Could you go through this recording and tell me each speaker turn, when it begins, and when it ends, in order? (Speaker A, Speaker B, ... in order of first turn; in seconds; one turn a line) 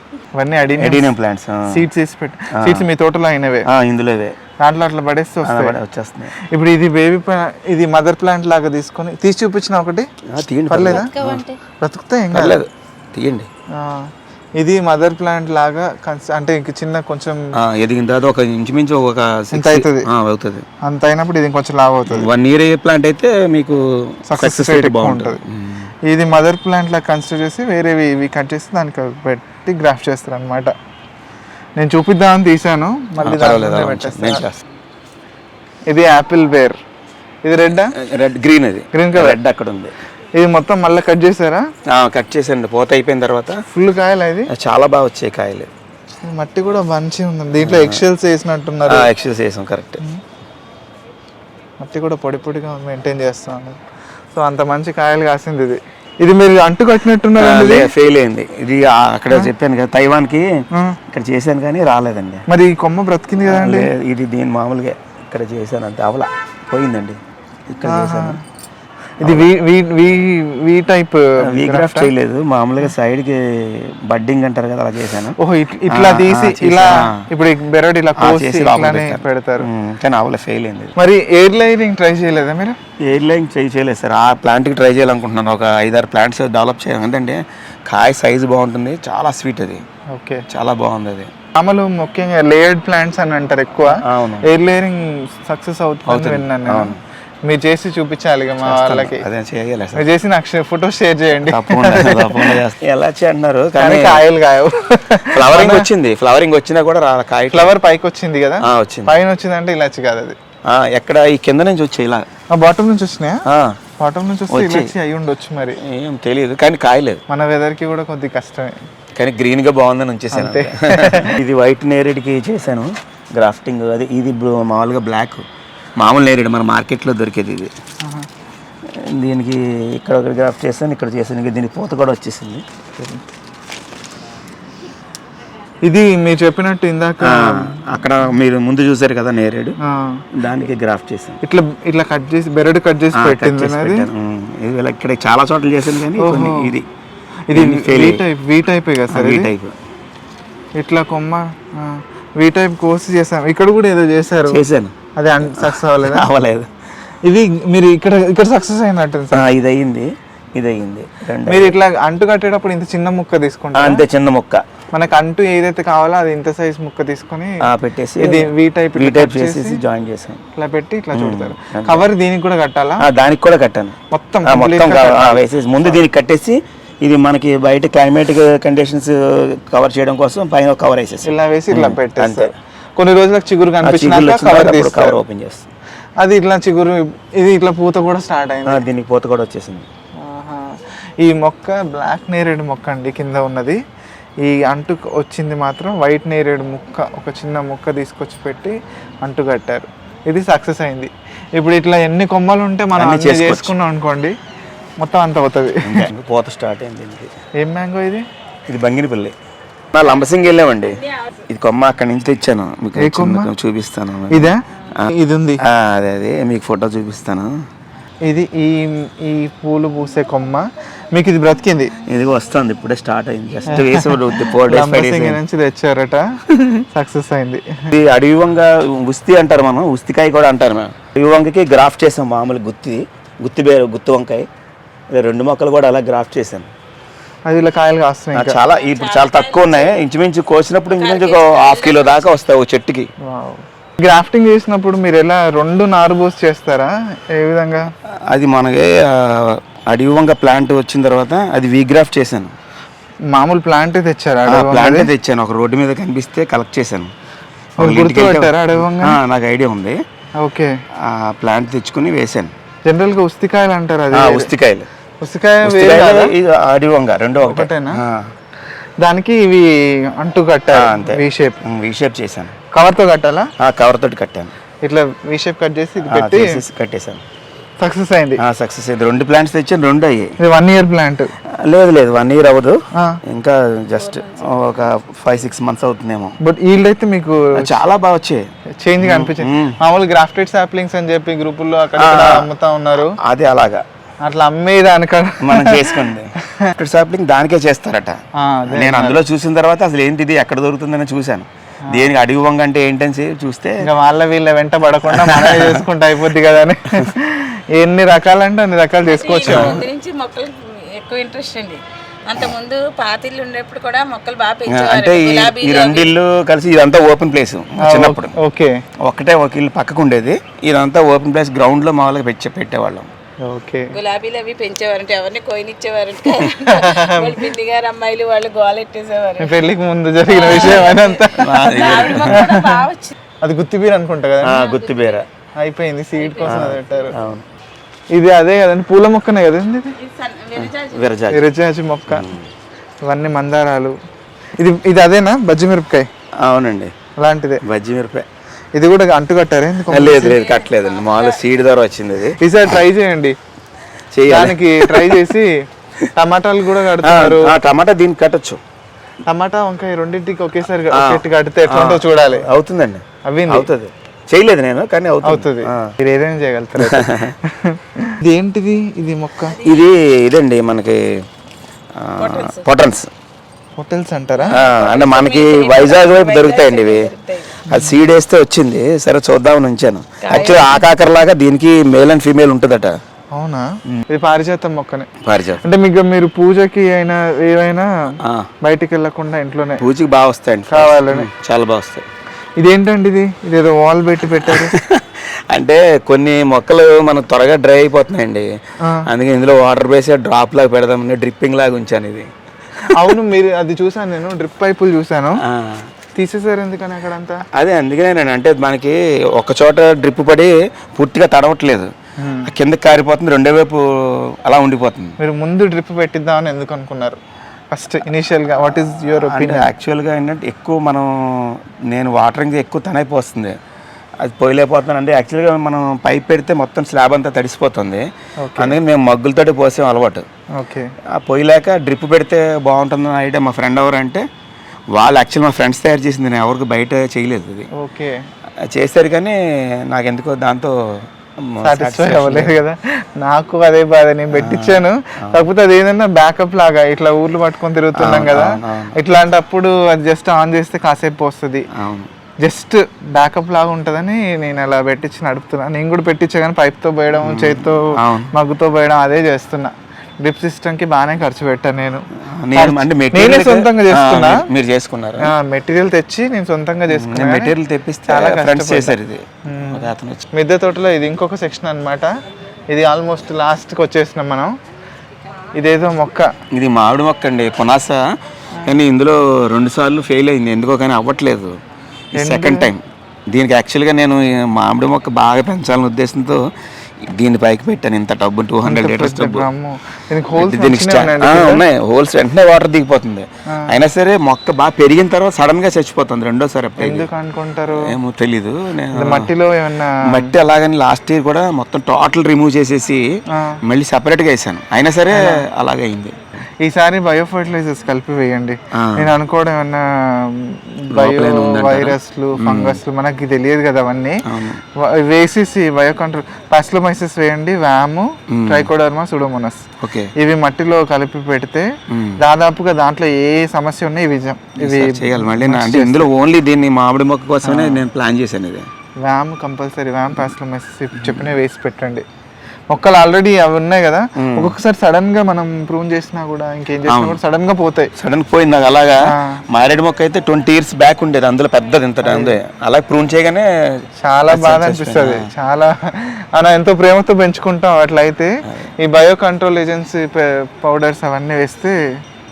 Speaker A: 0.3-1.1
Speaker B: 0.8-1.8
Speaker A: 1.7-3.7
Speaker B: 2.5-2.9
Speaker B: 3.6-4.4
Speaker A: 4.6-5.8
Speaker B: 5.4-6.3
Speaker A: 6.3-10.1
Speaker B: 10.2-11.5
Speaker A: 10.7-12.6
Speaker B: 12.3-13.5
Speaker A: 13.7-17.4
Speaker B: 17.6-20.7
Speaker A: 19.5-20.1
Speaker A: 20.8-22.3
Speaker B: 22.1-25.9
Speaker A: 24.3-25.4
Speaker A: 26.0-30.7
Speaker A: 31.8-34.4
Speaker B: 33.2-34.6
Speaker A: 35.9-36.8
Speaker A: 37.4-38.0
Speaker B: 37.9-39.9
Speaker A: 38.9-39.4
Speaker A: 40.4-41.7
Speaker B: 41.9-43.6
Speaker A: 43.7-44.5
Speaker B: 44.5-45.7
Speaker A: 46.2-49.1
Speaker B: 47.5-48.0
Speaker B: 48.8-50.0
Speaker A: 51.8-53.8
Speaker A: 54.3-57.9
Speaker B: 57.4-62.4
Speaker A: 60.7-61.0
Speaker A: 62.5-63.9
Speaker B: 63.5-68.4
Speaker A: 67.8-68.4
Speaker A: 69.2-72.1
Speaker B: 69.2-69.5
Speaker B: 71.4-75.3
Speaker A: 75.4-79.7
Speaker B: 75.9-77.2
Speaker B: 78.2-80.9
Speaker A: 81.0-82.8
Speaker B: 83.0-89.8
Speaker A: 90.1-90.4
Speaker B: 90.5-91.3
Speaker A: 91.5-96.9
Speaker B: 93.8-94.5
Speaker B: 96.0-97.0
Speaker A: 97.4-99.2
Speaker B: 98.6-100.1
Speaker A: 99.9-102.6
Speaker B: 101.4-104.2
Speaker A: 103.8-105.9
Speaker B: 105.3-107.7
Speaker A: 107.5-110.3
Speaker B: 108.6-109.2
Speaker B: 110.7-112.2
Speaker A: 112.5-113.4
Speaker B: 113.5-113.8
Speaker A: 114.0-115.8
Speaker B: 114.5-114.9
Speaker B: 115.8-117.2
Speaker A: 117.3-118.8
Speaker B: 119.2-125.5
Speaker A: 120.3-121.4
Speaker B: 126.0-127.7
Speaker B: 128.9-132.6
Speaker A: 132.9-133.2
Speaker A: 135.8-137.9
Speaker B: 137.2-139.8
Speaker A: 139.8-140.2
Speaker B: 140.3-141.4
Speaker A: 141.4-144.1
Speaker B: 143.1-146.9
Speaker A: 146.2-146.7
Speaker A: 147.5-149.5
Speaker B: 147.5-148.2
Speaker B: 149.1-149.8
Speaker A: 150.8-154.6
Speaker B: 154.5-156.7
Speaker A: 155.2-156.2
Speaker A: 157.2-159.4
Speaker B: 159.3-161.7
Speaker A: 161.4-164.0
Speaker B: 163.7-164.6
Speaker A: 164.9-167.7
Speaker B: 167.6-170.4
Speaker A: 168.2-169.8
Speaker A: 170.6-173.1
Speaker B: 171.1-172.1
Speaker B: 173.0-182.5
Speaker A: 174.1-175.5
Speaker A: 181.2-185.2
Speaker B: 183.8-185.7
Speaker A: 186.2-188.8
Speaker B: 188.7-189.9
Speaker A: 190.2-193.8
Speaker A: 194.4-204.4
Speaker B: 202.9-203.7
Speaker A: 205.0-206.1
Speaker B: 205.8-207.3
Speaker A: 207.6-208.2
Speaker B: 208.7-209.3
Speaker B: 209.9-215.1
Speaker A: 212.9-213.5
Speaker A: 214.3-215.6
Speaker B: 215.6-217.5
Speaker A: 218.2-221.9
Speaker B: 222.1-225.4
Speaker A: 223.7-227.9
Speaker B: 227.9-234.5
Speaker B: 235.1-236.7
Speaker A: 237.4-238.6
Speaker B: 238.3-243.1
Speaker C: 238.7-240.0
Speaker C: 240.9-242.2
Speaker A: 243.2-247.9
Speaker B: 248.3-252.6
Speaker A: 253.3-255.1
Speaker B: 254.4-257.1
Speaker A: 257.8-259.2
Speaker B: 257.8-260.0
Speaker A: 260.4-260.7
Speaker B: 261.0-262.5
Speaker A: 262.9-264.5
Speaker B: 264.1-264.9
Speaker A: 265.2-266.3
Speaker B: 265.6-268.3
Speaker A: 267.4-268.0
Speaker A: 269.0-271.6
Speaker B: 270.7-272.6
Speaker A: 272.7-273.5
Speaker B: 273.6-274.5
Speaker A: 274.8-276.6
Speaker B: 276.0-277.2
Speaker A: 277.8-278.4
Speaker B: 278.4-280.4
Speaker A: 280.4-281.3
Speaker B: 281.5-286.4
Speaker C: 284.0-284.5
Speaker A: 286.4-287.8
Speaker B: 287.6-288.5
Speaker A: 288.8-293.2
Speaker B: 289.0-289.8
Speaker B: 291.9-292.5
Speaker B: 293.0-293.8
Speaker A: 294.2-296.7
Speaker B: 295.4-298.2
Speaker A: 298.4-299.2
Speaker B: 298.7-303.8
Speaker A: 301.9-302.1
Speaker A: 303.8-309.8
Speaker B: 305.1-305.8
Speaker C: 309.0-316.1
Speaker B: 309.4-309.8
Speaker B: 314.7-318.4
Speaker A: 317.8-318.8
Speaker B: 319.0-323.1
Speaker A: 323.4-323.9
Speaker C: 323.9-329.6
Speaker A: 326.4-327.5
Speaker A: 329.4-332.9
Speaker C: 330.3-333.1
Speaker B: 330.5-332.5
Speaker A: 333.4-334.6
Speaker B: 334.4-335.2
Speaker C: 334.5-335.2
Speaker A: 335.6-337.1
Speaker C: 336.2-337.3
Speaker B: 336.4-337.4
Speaker A: 338.1-340.0
Speaker C: 340.0-341.1
Speaker B: 340.6-341.5
Speaker A: 341.3-342.3
Speaker B: 342.1-342.5
Speaker A: 343.1-343.9
Speaker A: 344.6-346.1
Speaker B: 346.4-346.9
Speaker A: 347.2-347.6
Speaker B: 347.6-348.3
Speaker A: 348.8-350.4
Speaker B: 349.9-352.4
Speaker C: 350.3-351.4
Speaker A: 352.4-353.4
Speaker B: 354.1-355.3
Speaker A: 354.3-355.6
Speaker A: 356.1-357.6
Speaker B: 357.0-358.6
Speaker A: 359.2-362.5
Speaker B: 360.9-365.9
Speaker A: 363.2-363.7
Speaker A: 365.2-369.6
Speaker B: 366.8-367.4
Speaker B: 369.6-371.2
Speaker B: 371.9-373.1
Speaker C: 372.2-372.7
Speaker A: 373.8-374.6
Speaker C: 374.4-377.6
Speaker B: 374.5-377.1
Speaker B: 377.7-383.0
Speaker A: 377.7-378.0
Speaker C: 380.2-380.9
Speaker A: 383.3-385.1
Speaker B: 385.2-385.6
Speaker A: 385.6-389.8
Speaker B: 388.2-388.5
Speaker B: 389.8-392.1
Speaker A: 390.7-391.3
Speaker A: 392.6-394.7
Speaker B: 394.4-398.5
Speaker A: 398.8-399.1
Speaker B: 399.1-402.3
Speaker B: 402.9-403.1
Speaker A: 402.9-405.4
Speaker B: 405.4-405.9
Speaker A: 406.1-407.4
Speaker B: 407.5-411.9
Speaker A: 412.2-412.5
Speaker B: 412.4-415.2
Speaker A: 415.2-417.2
Speaker A: 417.7-419.7
Speaker B: 418.8-423.6
Speaker B: 424.2-430.2
Speaker A: 428.4-428.8
Speaker A: 430.5-430.9
Speaker B: 431.1-434.2
Speaker B: 434.9-437.7
Speaker A: 437.7-438.2
Speaker B: 438.7-442.6
Speaker A: 441.6-451.6
Speaker B: 444.3-445.4
Speaker B: 447.9-448.9
Speaker B: 451.7-452.1
Speaker A: 452.4-462.0
Speaker B: 457.2-458.3
Speaker B: 462.3-465.3
Speaker A: 462.5-464.5
Speaker A: 465.2-467.5
Speaker B: 466.9-470.2
Speaker A: 468.1-468.9
Speaker A: 469.5-472.1
Speaker A: 472.7-474.5
Speaker A: 475.6-476.3
Speaker B: 476.5-478.0
Speaker B: 478.6-481.6
Speaker B: 482.1-486.4
Speaker A: 482.2-482.7
Speaker B: 487.0-489.5
Speaker A: 488.6-491.6
Speaker B: 490.3-497.1
Speaker A: 493.5-493.7
Speaker A: 496.8-497.9
Speaker B: 497.7-499.3
Speaker A: 498.9-500.3
Speaker B: 500.0-503.0
Speaker A: 503.3-503.6
Speaker B: 503.6-506.2
Speaker A: 505.1-505.4
Speaker A: 506.6-514.2
Speaker B: 508.7-509.1
Speaker B: 510.9-512.8
Speaker B: 514.2-514.6
Speaker A: 514.8-526.1
Speaker B: 518.3-518.7
Speaker B: 519.8-520.1
Speaker B: 521.9-522.2
Speaker B: 524.6-528.7
Speaker A: 527.4-527.8
Speaker A: 529.0-532.0
Speaker B: 531.0-531.3
Speaker A: 532.7-537.9
Speaker B: 534.1-534.6
Speaker B: 536.9-537.2
Speaker B: 538.0-543.5
Speaker A: 539.1-539.4
Speaker A: 542.0-542.4
Speaker A: 544.0-551.8
Speaker B: 544.3-545.3